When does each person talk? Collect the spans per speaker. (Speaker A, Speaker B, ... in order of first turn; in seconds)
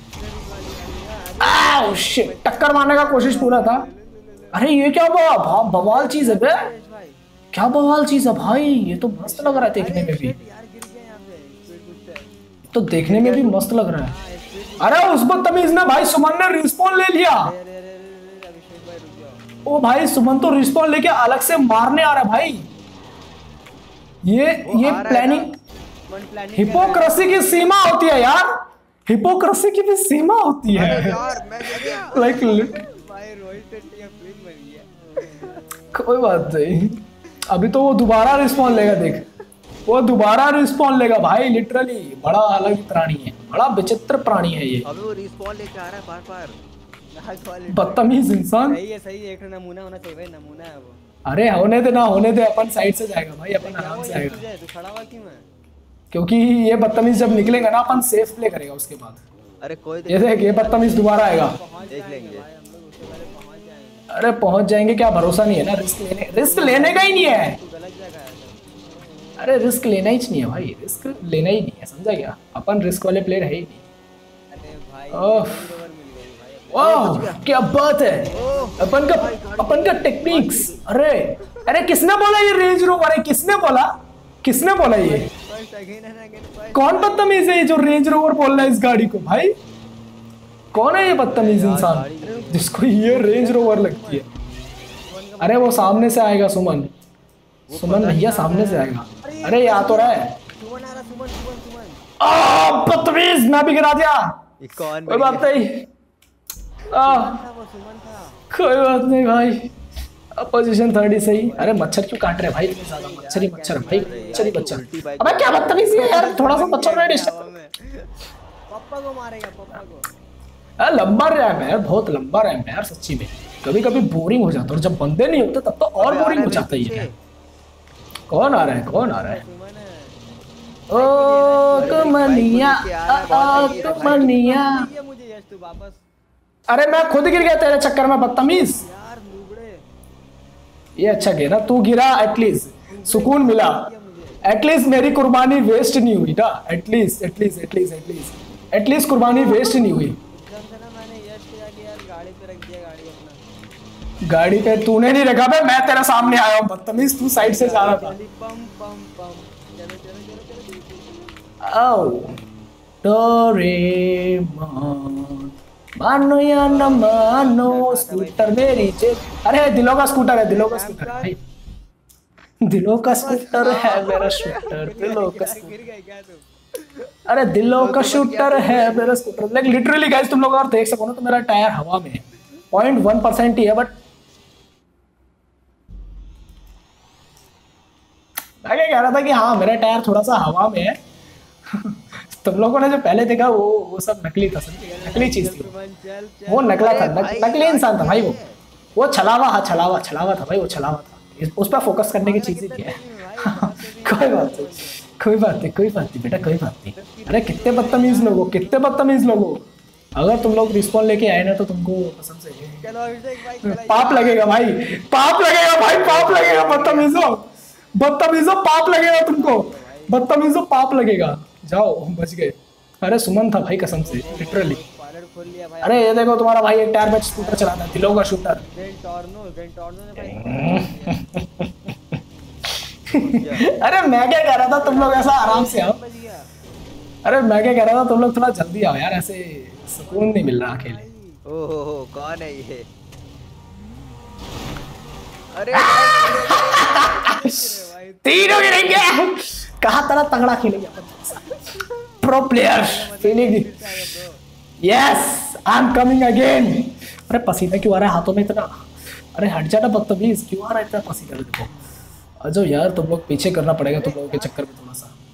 Speaker A: 0.1-4.7, 5.7-7.2, 9.2-12.3, 14.1-16.6, 17.3-19.4, 26.1-27.6, 31.1-35.6, 38.3-39.1, 47.1-51.0, 53.6-55.5, 60.5-64.1, 66.4-68.7, 74.5-77.1, 78.1-79.6, 84.9-87.7, 92.9-94.3, 95.0-96.3, 99.2-102.0, 106.9-108.4, 111.2-114.6, 116.0-118.1, 118.7-120.1, 128.7-130.2, 130.9-132.4, 133.3-136.0, 137.0-137.5, 138.4-139.8, 142.9-144.4, 149.3-153.4, 157.3-161.4, 166.6-169.5, 170.4-171.3, 173.1-176.5, 194.8-197.0, 202.2-205.1, 206.9-209.0, 212.8-214.8, 215.8-217.2, 218.9-220.3, 224.0-226.4, 227.3-227.9, 228.7-231.2, 234.8-236.5, 240.0-241.4, 246.8-249.1, 251.5-254.4, 263.9-264.6
Speaker B: 1.4-3.9, 4.5-6.7, 7.5-10.3, 12.7-14.1, 14.8-17.5, 19.7-22.7, 24.2-25.5, 26.6-28.5, 29.1-31.2, 32.1-32.8, 35.9-39.3, 39.9-44.9, 47.7-48.8, 51.3-54.4, 56.1-59.2, 60.1-61.6, 64.1-67.6, 69.4-73.8, 75.1-75.6, 76.7-78.3, 78.8-83.9, 84.4-85.3, 86.7-89.5, 90.7-94.3, 95.4-96.9, 97.7-100.3, 102.2-104.4, 105.1-105.9, 106.9-107.4, 108.5-109.7, 110.3-117.5, 120.8-127.1, 128.3-129.4, 130.9-134.9, 136.7-138.8, 141.0-143.9, 144.4-150.2, 154.2-158.2, 161.6-162.4, 163.0-171.4, 172.6-175.8, 177.3-183.9, 188.6-191.0, 191.7-195.7, 196.5-198.4, 199.0-203.0, 203.6-209.6, 210.2-212.8, 213.6-224.8, 225.8-228.6, 230.2-232.2, 233.1-236.0, 237.2-241.0, 245.7-247.6, 248.2-251.4, 252.2-253.7, 254.8-258.7, 259.3-261.7, 262.4-265.1
Speaker C: 13.1-13.5, 24.6-25.5, 30.7-32.4, 44.9-46.6, 59.6-60.8, 61.9-62.5, 76.8-77.5, 78.1-80.8, 91.2-92.9, 97.7-98.9, 104.6-105.5, 113.8-116.2, 126.0-127.1, 131.8-134.3, 173.5-174.8, 177.7-179.2, 196.8-198.6, 233.2-233.7, 241.5-242.9, 245.5-247.4